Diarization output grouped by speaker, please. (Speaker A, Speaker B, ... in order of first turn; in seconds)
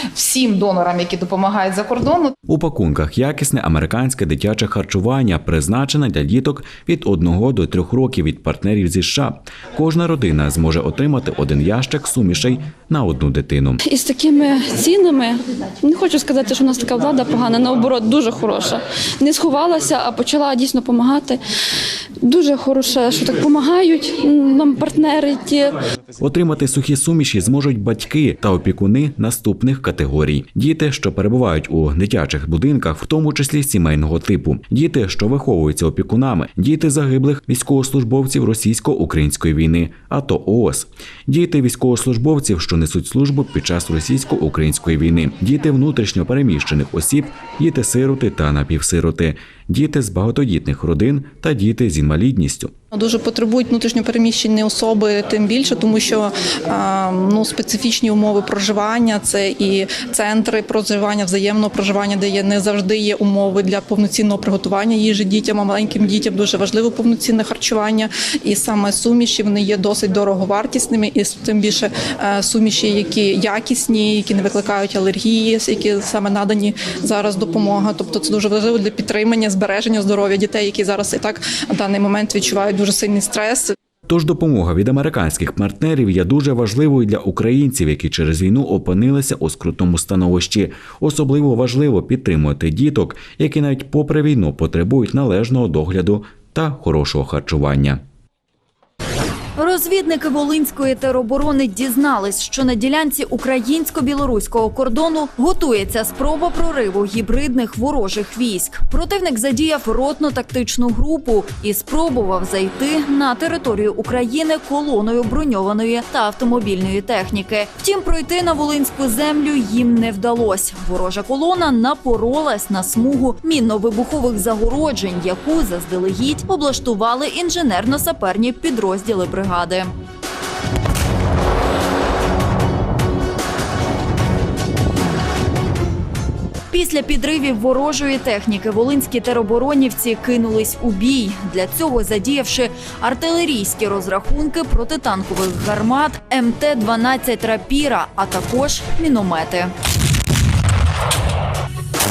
Speaker A: 0.2-2.1
Speaker B: 2.5-13.8, 26.2-52.7, 84.1-98.0
Speaker C: 13.8-21.4, 22.2-25.8
Speaker D: 52.9-83.7
Speaker E: 99.6-129.9, 136.7-149.7